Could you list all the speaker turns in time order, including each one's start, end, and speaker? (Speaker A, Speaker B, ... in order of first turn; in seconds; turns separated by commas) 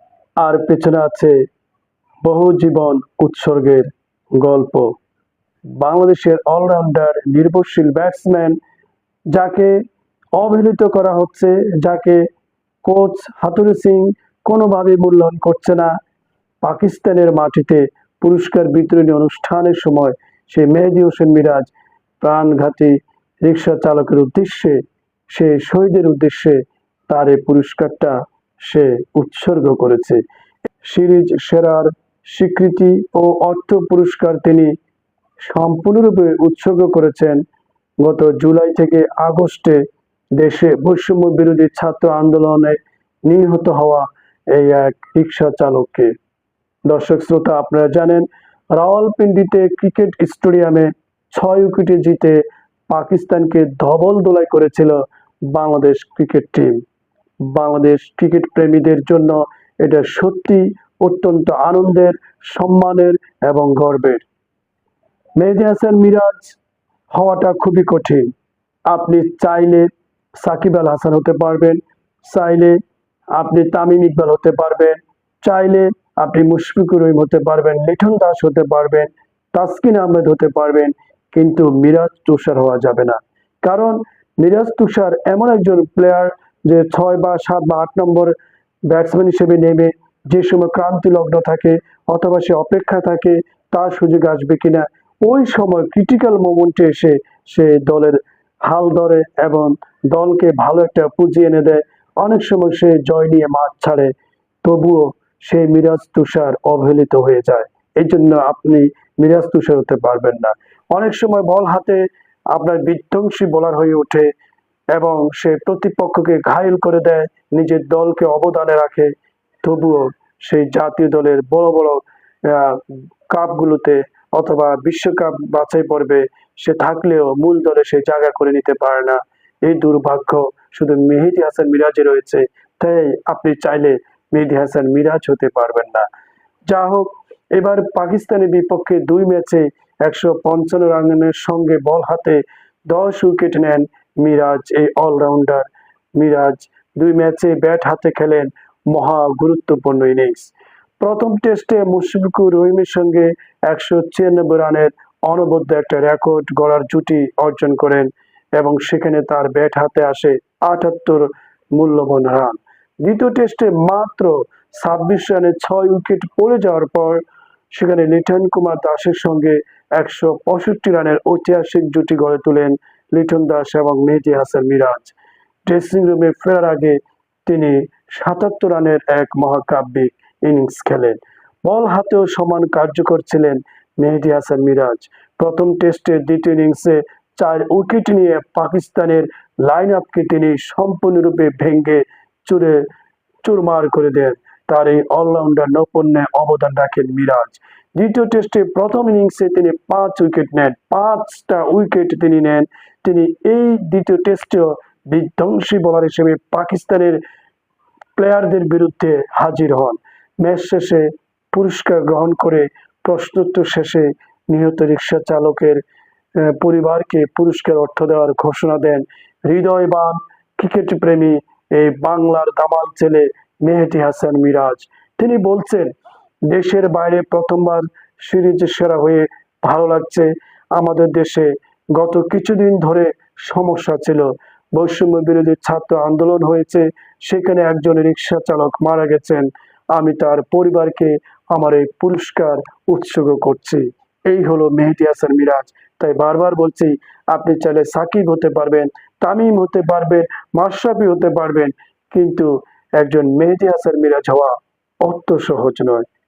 Speaker A: 0.4-1.3, Speaker A: 2.2-4.9, Speaker A: 5.8-8.6, Speaker A: 9.3-9.8, Speaker A: 10.4-12.3, Speaker A: 12.8-15.9, Speaker A: 16.6-30.2, Speaker A: 30.8-34.7, Speaker A: 35.5-37.4, Speaker A: 38.0-39.8, Speaker A: 40.4-46.1, Speaker A: 46.9-55.0, Speaker A: 55.5-56.8, Speaker A: 57.4-64.2, Speaker A: 65.4-66.6, Speaker A: 67.1-68.3, Speaker A: 68.9-69.9, Speaker A: 70.4-72.8, Speaker A: 73.4-88.3, Speaker A: 88.9-104.1, Speaker A: 104.6-114.3, Speaker A: 114.9-119.1, Speaker A: 119.6-136.1, Speaker A: 136.7-175.2, Speaker A: 175.7-192.8, Speaker A: 193.4-207.2, Speaker A: 208.2-215.8, Speaker A: 216.3-225.9, Speaker A: 226.5-256.1